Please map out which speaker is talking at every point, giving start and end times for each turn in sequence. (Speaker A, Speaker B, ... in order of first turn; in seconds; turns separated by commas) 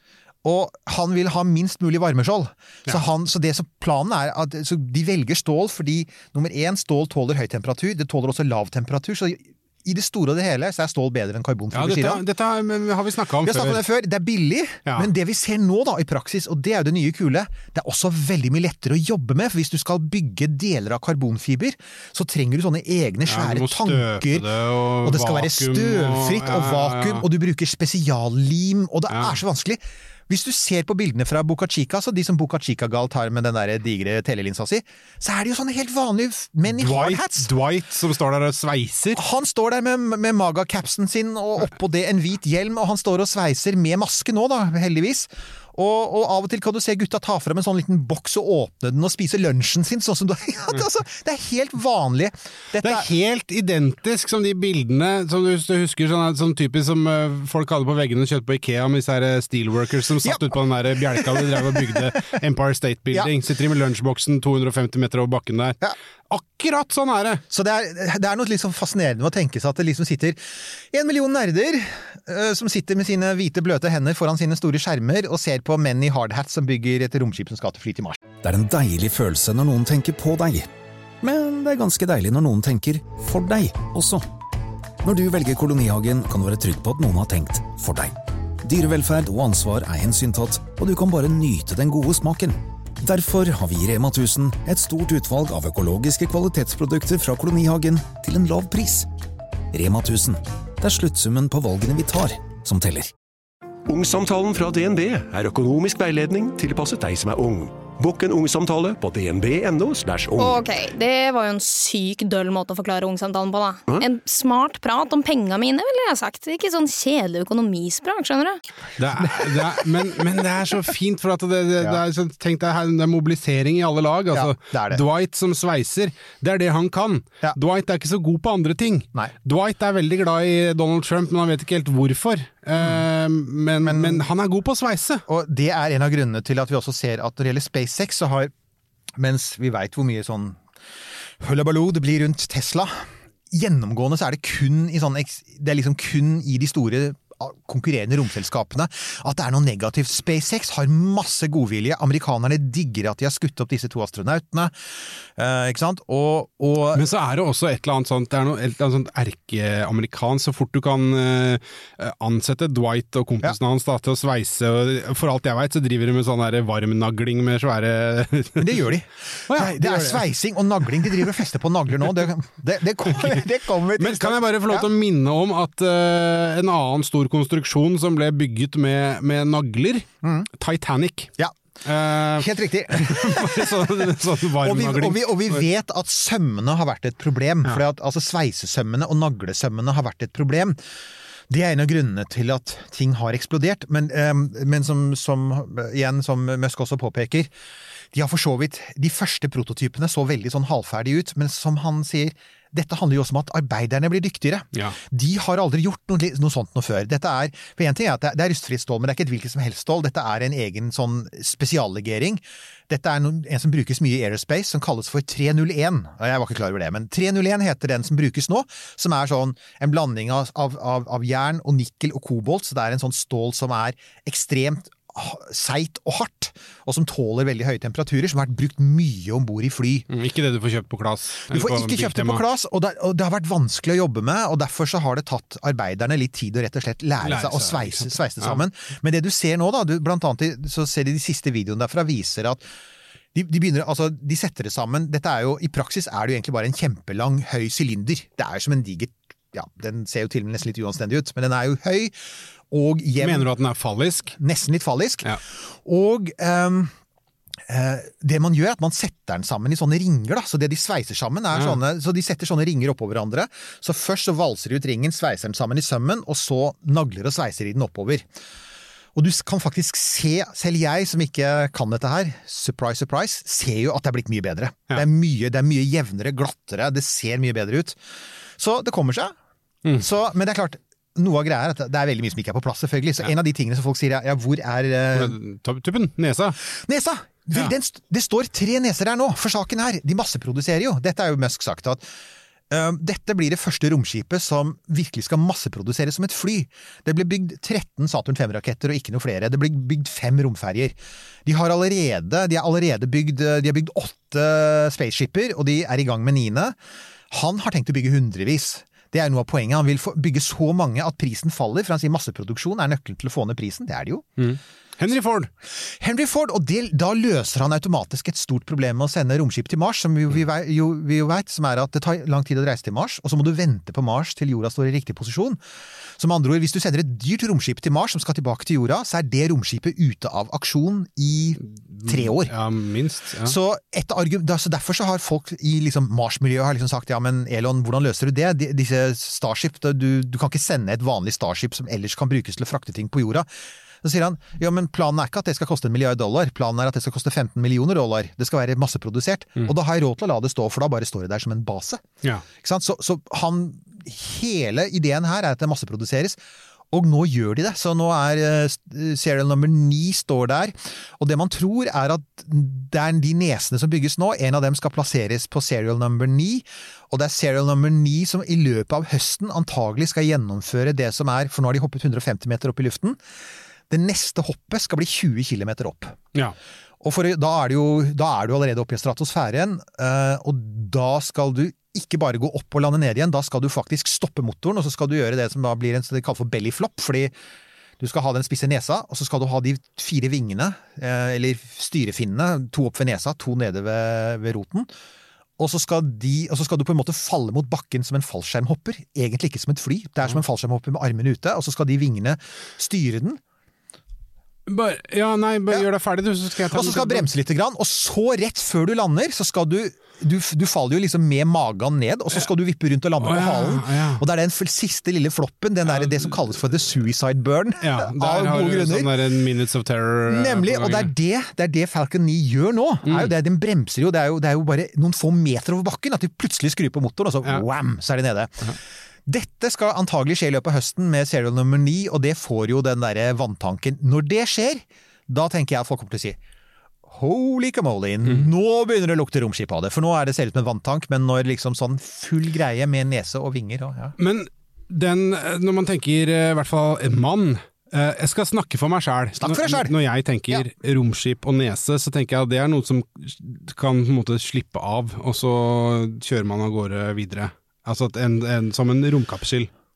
Speaker A: 0.4-12.2, Speaker B: 11.7-13.8, Speaker A: 13.4-24.5, Speaker B: 23.2-27.2, Speaker A: 25.0-37.5, Speaker B: 29.1-29.4, Speaker B: 36.7-39.2, Speaker A: 39.1-53.1, Speaker B: 52.8-65.8, Speaker A: 60.2-60.5, Speaker A: 61.1-62.1, Speaker B: 66.3-67.4, Speaker A: 67.5-78.2, Speaker C: 78.4-80.7, Speaker C: 81.2-84.2, Speaker C: 85.0-99.0, Speaker C: 99.7-103.1, Speaker D: 103.9-110.6, Speaker E: 110.4-118.6, Speaker B: 119.0-135.2, Speaker A: 124.3-125.0, Speaker A: 132.8-133.0, Speaker A: 133.8-134.2, Speaker A: 135.3-138.5, Speaker A: 139.2-140.6, Speaker A: 141.4-157.1, Speaker B: 156.9-168.7, Speaker A: 168.6-174.9, Speaker B: 169.5-170.2, Speaker B: 173.2-173.4, Speaker B: 174.0-181.3, Speaker B: 181.8-185.6, Speaker A: 182.4-190.8, Speaker A: 191.5-197.5, Speaker A: 198.1-230.1, Speaker B: 230.1-232.4, Speaker A: 231.5-242.7, Speaker B: 237.2-238.6, Speaker A: 243.3-253.5, Speaker B: 253.2-254.3, Speaker A: 254.3-256.9, Speaker A: 257.7-268.3, Speaker A: 269.1-278.0, Speaker A: 278.6-279.4, Speaker A: 280.0-285.4, Speaker B: 285.1-286.6, Speaker A: 286.6-292.0, Speaker A: 292.7-306.8, Speaker A: 307.3-314.3, Speaker B: 314.4-315.5, Speaker A: 315.7-325.6, Speaker A: 326.2-332.5, Speaker B: 331.6-333.6, Speaker A: 333.4-343.5, Speaker A: 344.0-352.0, Speaker A: 352.6-356.4, Speaker A: 356.9-373.2, Speaker A: 373.9-376.2, Speaker A: 377.0-387.3, Speaker A: 388.0-394.9, Speaker A: 395.6-403.4, Speaker B: 404.7-407.3, Speaker A: 406.6-419.1, Speaker B: 413.2-414.2, Speaker B: 415.9-416.3, Speaker B: 417.8-421.1, Speaker A: 420.3-428.7, Speaker B: 423.0-423.3, Speaker A: 429.2-436.4, Speaker A: 437.1-444.1, Speaker B: 444.2-459.7, Speaker A: 449.4-449.9